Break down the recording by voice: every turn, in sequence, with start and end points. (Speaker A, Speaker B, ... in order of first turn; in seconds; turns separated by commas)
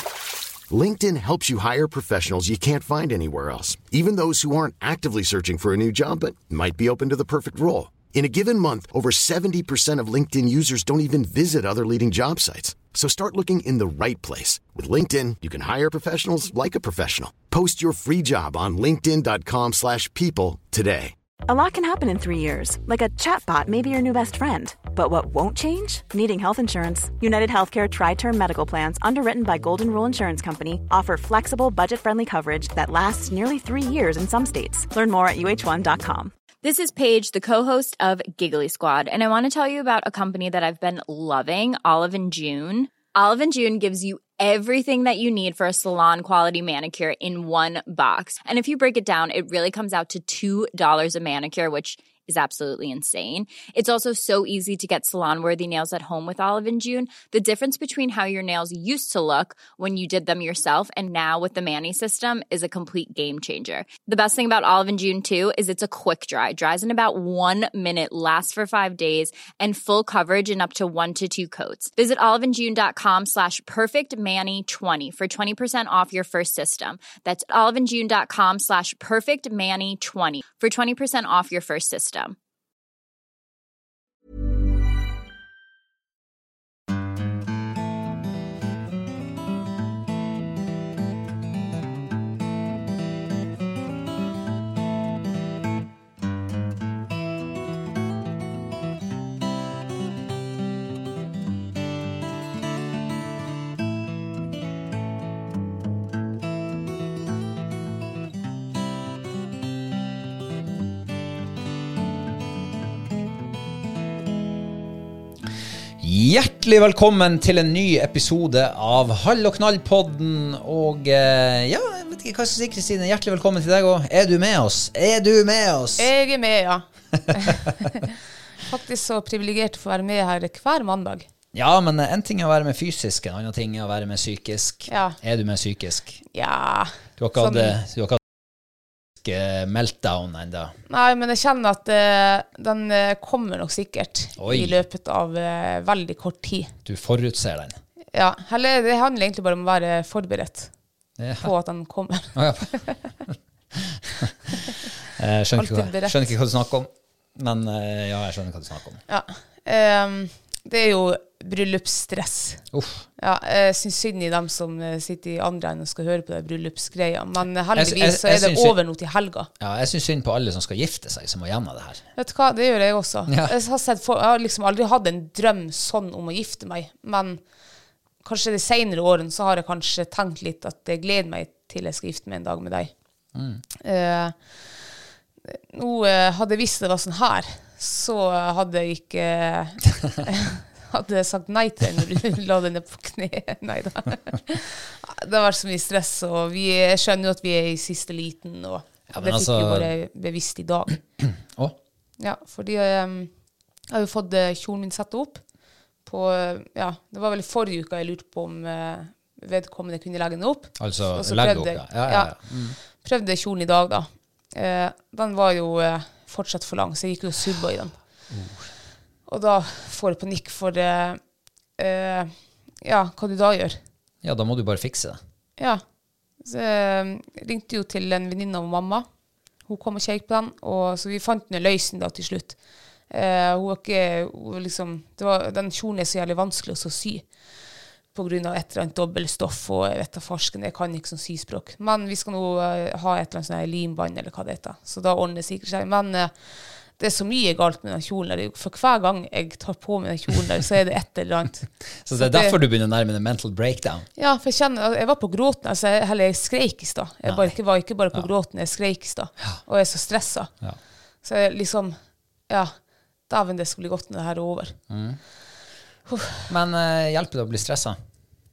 Speaker A: 0.7-21.1, Speaker B: 21.5-36.3, Speaker C: 36.6-82.4, Speaker D: 116.0-126.1, Speaker E: 126.0-128.2, Speaker E: 128.7-131.3, Speaker D: 131.5-136.2, Speaker E: 134.9-135.2, Speaker E: 136.3-137.8, Speaker D: 137.2-138.2, Speaker D: 139.2-140.8, Speaker E: 140.9-146.7, Speaker D: 144.4-144.8, Speaker D: 146.8-147.8, Speaker E: 148.1-150.7, Speaker D: 151.2-151.5, Speaker E: 151.4-152.9, Speaker D: 152.4-154.6, Speaker D: 155.1-159.0, Speaker E: 155.5-156.2, Speaker E: 159.1-162.6, Speaker D: 162.7-163.1, Speaker E: 163.2-169.5, Speaker D: 167.7-168.8, Speaker D: 169.6-172.0, Speaker E: 172.2-177.4, Speaker D: 173.3-173.6, Speaker E: 178.2-182.9, Speaker D: 183.3-183.6, Speaker E: 183.8-184.4, Speaker E: 185.5-201.0, Speaker D: 199.1-199.9, Speaker D: 201.2-201.8, Speaker E: 202.2-203.3, Speaker E: 203.9-205.4, Speaker E: 206.1-212.3, Speaker D: 210.8-212.8, Speaker E: 213.0-218.0, Speaker D: 218.3-218.7, Speaker E: 219.3-221.2, Speaker E: 221.8-223.8, Speaker D: 224.2-225.2, Speaker E: 226.4-229.1, Speaker E: 229.7-232.6, Speaker E: 233.1-237.2, Speaker E: 238.1-246.3, Speaker E: 247.0-251.7, Speaker D: 252.0-254.1, Speaker E: 252.2-252.6, Speaker E: 254.2-260.5, Speaker D: 257.3-257.5, Speaker E: 261.2-262.0, Speaker E: 263.3-264.8, Speaker D: 264.9-265.2, Speaker E: 266.1-266.4, Speaker D: 266.5-268.0